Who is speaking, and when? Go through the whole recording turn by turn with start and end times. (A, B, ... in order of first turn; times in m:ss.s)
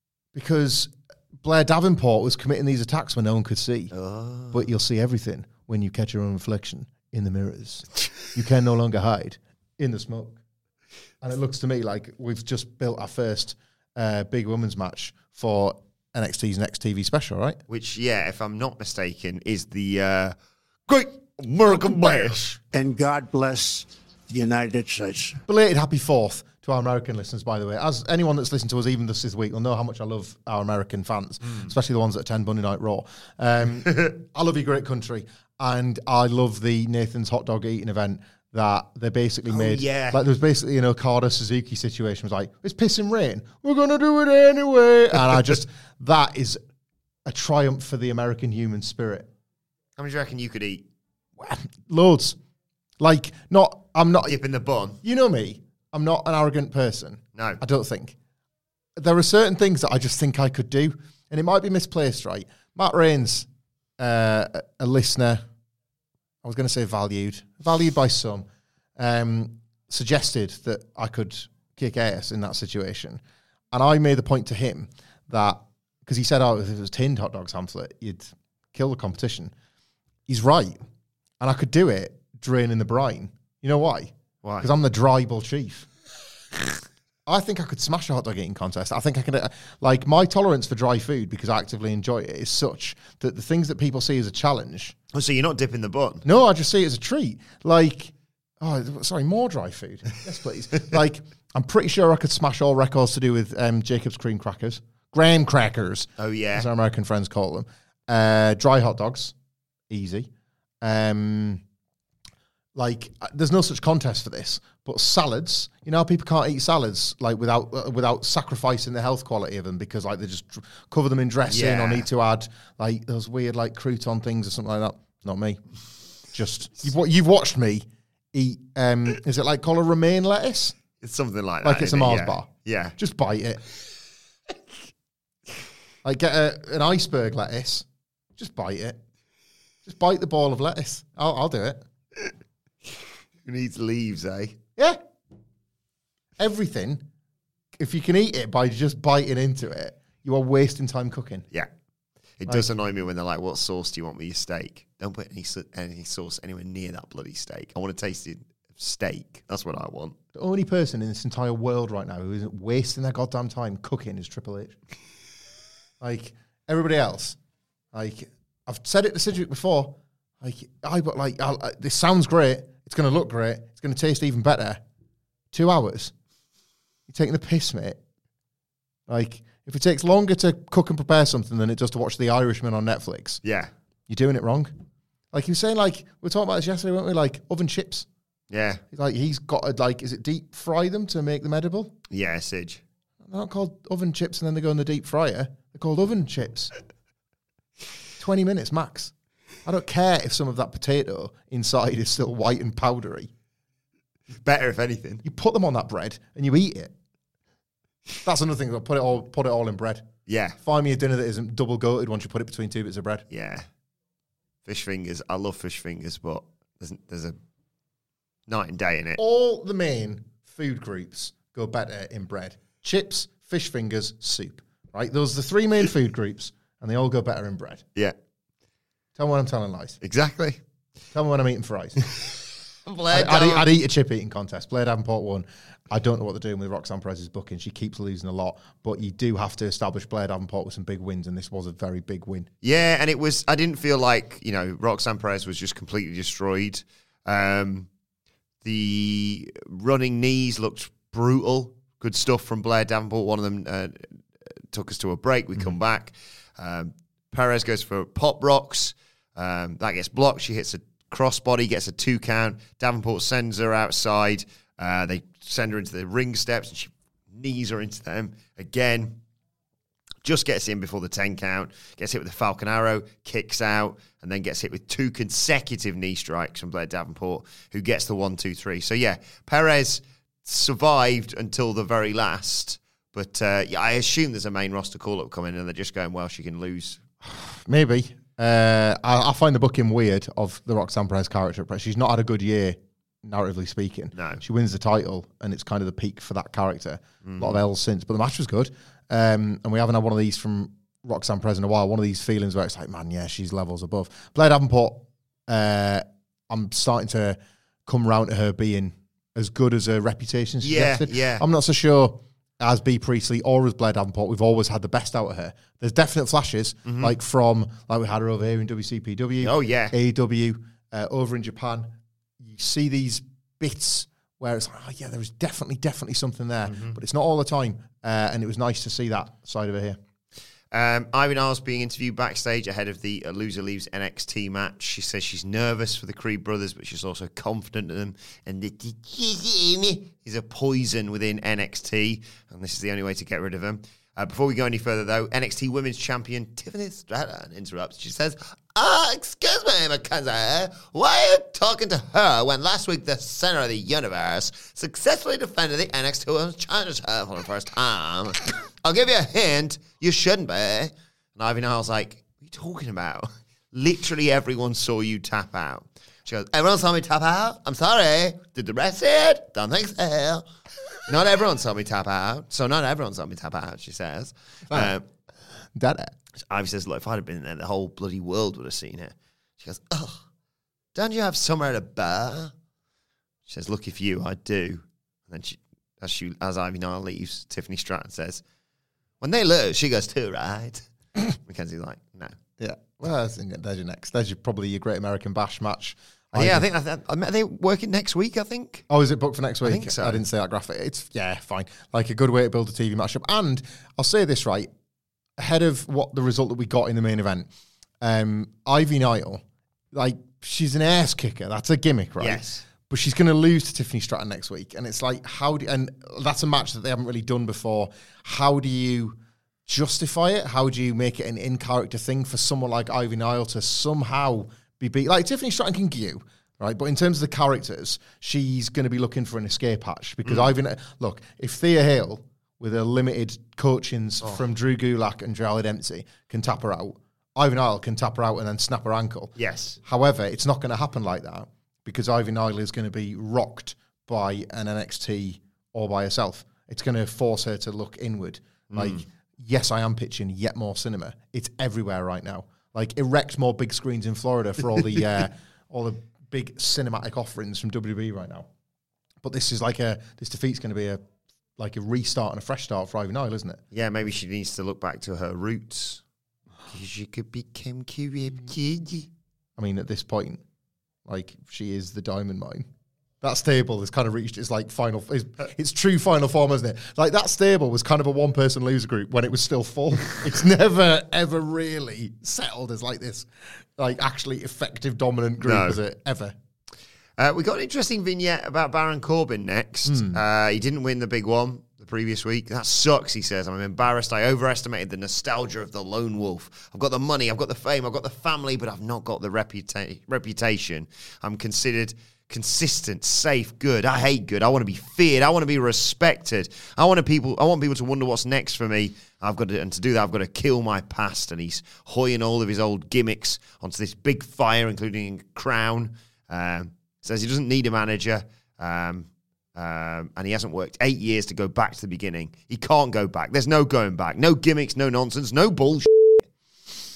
0:00.3-0:03.9 A
0:03.9-0:04.6 B
0:04.5-0:10.4 A
0:11.2-0:17.6 A
0:17.7-0:20.3 B
0:20.9-0:22.5 B
0:21.7-0:22.4 A
0:22.7-0:25.4 C
0:25.4-0:46.6 A
0:39.5-0:40.2 B
0:47.2-0:49.3 A
0:50.0-0:50.8 B
0:51.4-0:52.4 A
0:53.0-0:54.4 A
0:54.2-0:55.0 B
0:55.0-0:58.1 A
0:59.0-1:03.5 A
1:04.0-1:05.4 A
1:06.4-1:08.4 A
1:09.0-1:13.2 A
1:13.7-1:19.5 A
1:20.3-1:20.8 A
1:21.4-1:25.9 A
1:24.4-1:24.7 B
1:27.2-1:35.0 A
1:35.1-1:36.2 B
1:36.2-1:49.3 A
1:46.2-1:46.7 B
1:49.9-1:50.3 A
1:50.8-1:51.6 A
1:52.7-2:05.6 A
2:01.5-2:02.0 B
2:06.3-2:10.8 A
2:11.0-2:13.0 B
2:11.6-2:13.6 A
2:16.0-2:19.0 A
2:19.8-2:21.8 A
2:23.4-2:24.6 B
2:26.4-2:27.0 A
2:27.8-2:31.4 A
2:32.4-2:40.2 B
2:40.3-2:44.8 A
2:46.0-2:47.4 A
2:47.9-2:54.8 A
2:55.5-2:56.1 A
2:57.1-2:58.0 A
2:59.1-3:03.4 A
3:03.4-3:03.7 B
3:04.1-3:04.7 A
3:05.3-3:08.1 A
3:08.5-3:08.8 B
3:08.9-3:11.9 A
3:12.1-3:12.8 B
3:13.2-3:16.7 A
3:18.2-3:19.1 A
3:19.6-3:23.3 A
3:24.4-3:25.2 B
3:25.2-3:26.9 A
3:28.2-3:30.1 A
3:30.3-3:30.6 B
3:30.6-3:33.3 A
3:33.3-3:33.7 B
3:34.6-3:37.4 B
3:38.5-3:39.2 B
3:39.2-3:47.8 A
3:49.2-3:50.0 A
3:50.0-3:50.6 B
3:51.1-3:52.0 A
3:52.8-3:53.6 B
3:53.1-4:02.5 A
4:02.6-4:07.9 B
4:08.6-4:14.0 B
4:14.7-4:29.2 B
4:30.2-4:47.0 B
4:47.2-5:30.0 A
4:54.2-4:54.4 B
4:57.2-4:57.6 B
5:10.6-5:11.4 B
5:16.8-5:17.1 B
5:19.4-5:19.9 B
5:26.7-5:27.0 B
5:30.7-6:10.4 B
6:11.0-6:15.0 B
6:15.7-6:16.1 A
6:16.5-6:20.2 B
6:20.9-6:22.5 B
6:23.5-6:28.4 B
6:29.2-6:32.4 B
6:32.6-6:36.7 A
6:36.3-6:38.8 B
6:38.9-6:44.7 A
6:39.6-6:40.2 B
6:45.4-6:47.5 A
6:48.0-6:59.1 A
6:52.2-6:52.6 B
6:59.7-7:38.5 A
7:19.4-7:19.8 B
7:28.7-7:29.0 B
7:39.2-7:41.0 A
7:41.6-7:43.6 A
7:43.7-7:46.0 B
7:46.6-7:49.1 B
7:49.6-7:50.4 A
7:51.0-7:52.7 A
7:53.2-8:06.3 A
8:05.4-8:05.8 B
8:07.2-8:46.2 B
8:09.9-8:10.2 A